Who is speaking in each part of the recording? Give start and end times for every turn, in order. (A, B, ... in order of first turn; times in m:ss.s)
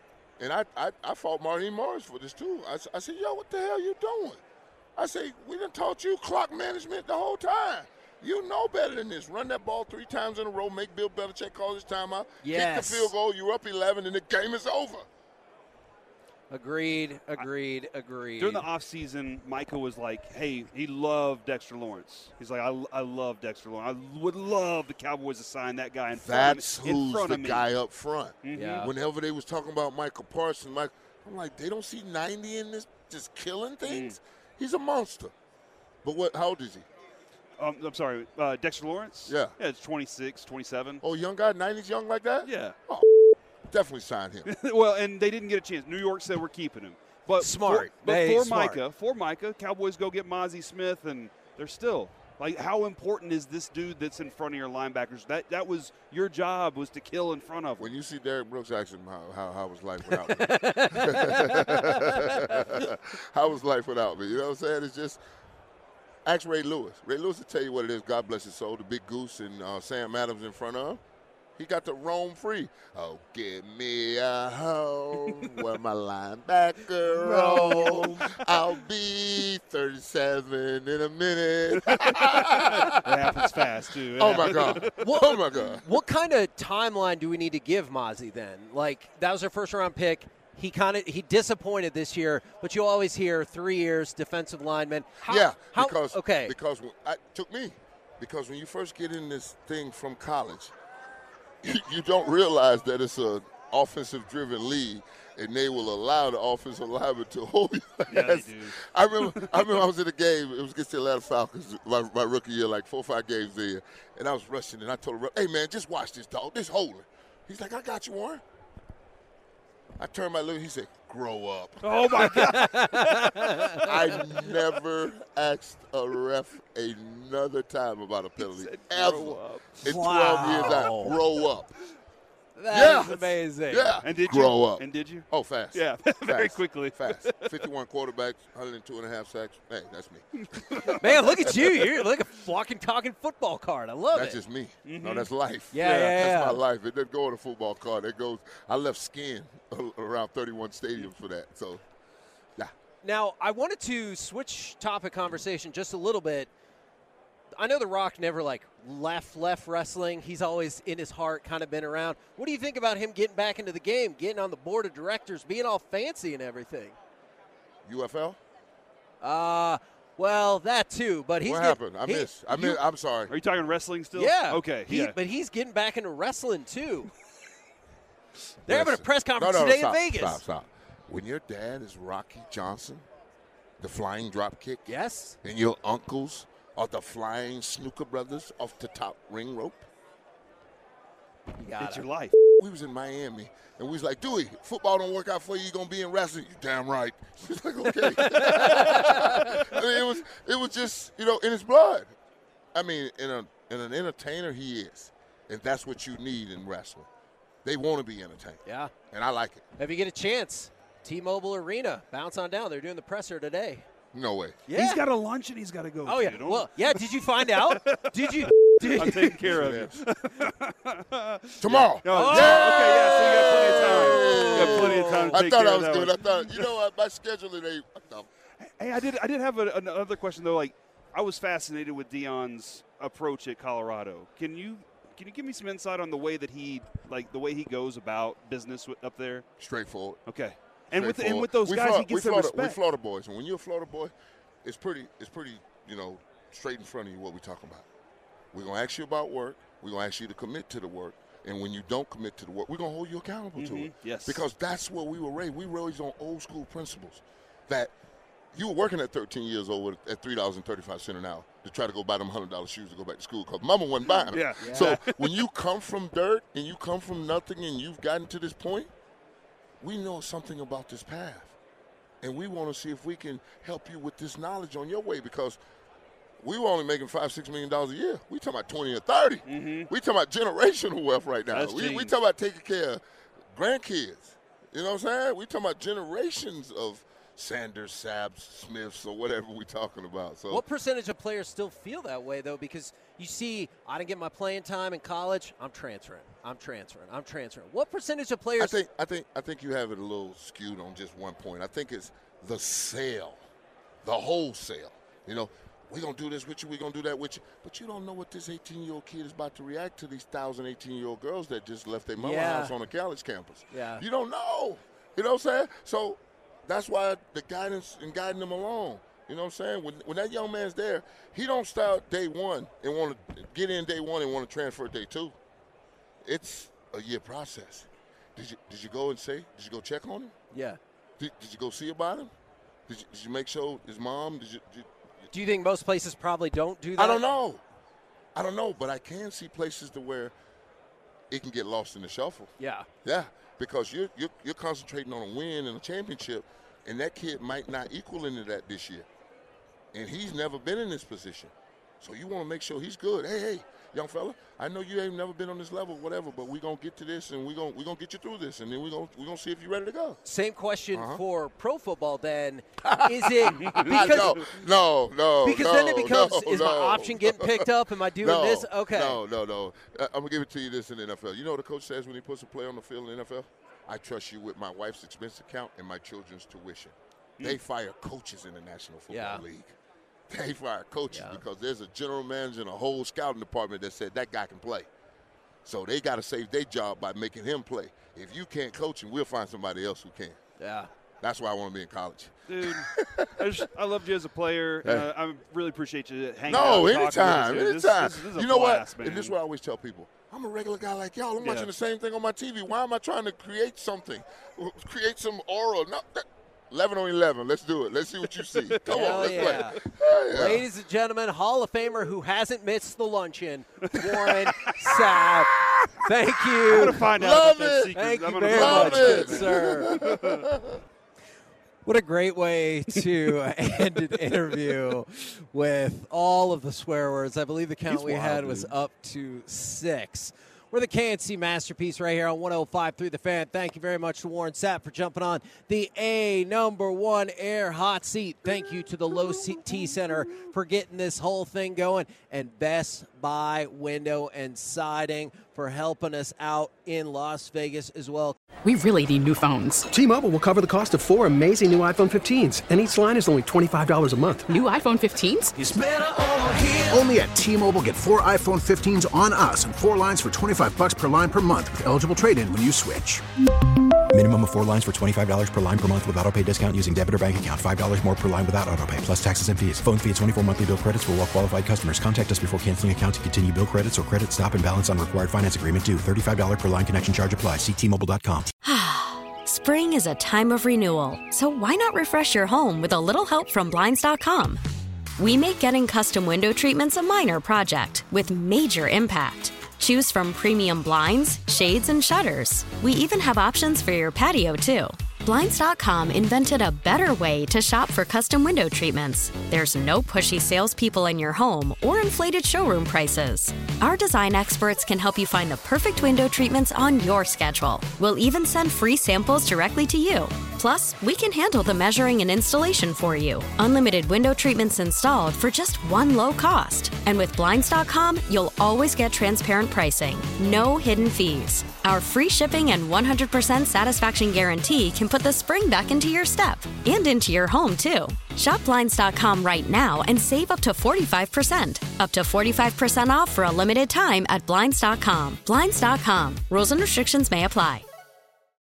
0:00.4-0:04.4 A
0:05.0-0:15.0 A
0:12.4-0:13.1 B
0:16.5-0:18.7 B
0:18.4-0:27.7 C
0:26.1-0:35.3 A
0:28.4-0:28.9 C
0:28.5-0:28.9 B
0:33.8-0:34.2 C
0:36.0-0:36.8 A
0:37.6-0:41.0 C
0:39.3-0:39.5 A
0:41.0-0:44.5 A
0:42.4-0:42.8 C
0:44.4-0:57.9 C
0:47.4-0:48.8 B
0:57.8-1:05.2 A
1:00.3-1:02.6 B
1:06.2-1:11.0 A
1:11.6-1:25.8 A
1:17.2-1:18.2 B
1:21.9-1:25.3 C
1:24.8-1:36.5 B
1:35.2-1:40.7 A
1:41.6-1:58.4 A
1:48.1-1:49.8 C
2:00.0-2:02.3 A
2:01.8-2:03.6 C
2:01.9-2:04.2 B
2:03.8-2:11.7 A
2:08.4-2:09.8 C
2:09.8-2:11.2 B
2:12.6-2:13.9 B
2:12.7-2:21.0 A
2:14.0-2:17.6 C
2:20.4-2:21.0 C
2:20.9-2:24.4 B
2:24.1-2:31.8 A
2:24.8-2:26.2 C
2:25.7-2:26.6 B
2:33.0-2:36.5 B
2:37.5-2:47.0 B
2:47.8-2:48.4 A
2:49.2-2:52.8 B
2:51.4-2:53.3 A
2:53.3-2:55.2 C
2:54.1-2:57.1 B
2:58.7-3:00.4 B
2:58.7-3:03.0 A
3:03.8-3:04.9 A
3:04.8-3:05.4 B
3:05.4-3:09.9 A
3:11.6-3:12.0 B
3:11.8-3:12.4 C
3:12.6-3:22.1 A
3:18.1-3:19.6 B
3:22.7-3:27.1 A
3:27.6-3:29.6 A
3:28.6-3:28.9 B
3:29.8-3:33.9 B
3:34.1-3:34.6 A
3:34.7-3:35.0 B
3:34.7-3:46.7 C
3:36.0-3:39.5 B
3:39.3-3:40.0 A
3:41.6-3:48.3 A
3:42.0-3:45.4 B
3:48.8-3:59.4 C
3:59.6-4:00.2 A
4:00.2-4:02.8 C
4:00.9-4:04.1 A
4:04.6-4:07.8 A
4:08.5-4:17.9 A
4:13.6-4:14.4 C
4:18.5-4:28.9 A
4:24.1-4:25.4 C
4:24.6-4:25.0 B
4:29.8-4:31.5 A
4:32.2-4:35.6 A
4:36.4-4:43.0 A
4:39.4-4:39.9 C
4:41.5-4:42.1 C
4:43.5-4:50.6 A
4:50.5-4:58.8 B
4:58.6-5:03.4 A
5:04.0-5:25.3 A
5:12.2-5:12.7 B
5:13.7-5:14.0 B
5:26.2-5:30.3 A
5:30.5-5:30.8 B
5:31.2-5:32.3 A
5:32.9-5:34.9 A
5:35.3-5:37.2 B
5:37.0-5:37.6 A
5:38.3-5:40.3 A
5:41.3-5:42.5 A
5:42.6-5:42.9 B
5:43.0-5:49.1 A
5:49.9-6:00.2 A
6:00.2-6:04.4 B
6:00.9-6:01.2 A
6:02.8-6:19.7 A
6:03.6-6:04.2 C
6:05.4-6:09.2 B
6:19.1-6:19.4 B
6:20.3-6:24.9 A
6:21.1-6:21.4 B
6:25.6-6:30.4 A
6:30.6-6:30.9 B
6:31.2-6:33.4 A
6:32.5-6:39.4 C
6:36.4-6:50.6 A
6:41.4-6:41.7 C
6:48.5-6:49.6 C
6:48.8-6:49.8 B
6:50.3-6:57.1 B
6:56.6-7:00.4 C
6:57.0-7:00.8 A
6:57.9-7:00.0 B
7:01.8-7:28.4 B
7:07.9-7:08.7 A
7:28.6-7:29.9 D
7:29.9-7:34.4 E
7:34.4-7:36.9 D
7:35.6-7:35.8 F
7:36.6-7:43.2 F
7:44.1-7:58.5 G
7:58.6-8:04.6 H
8:05.2-8:57.8 H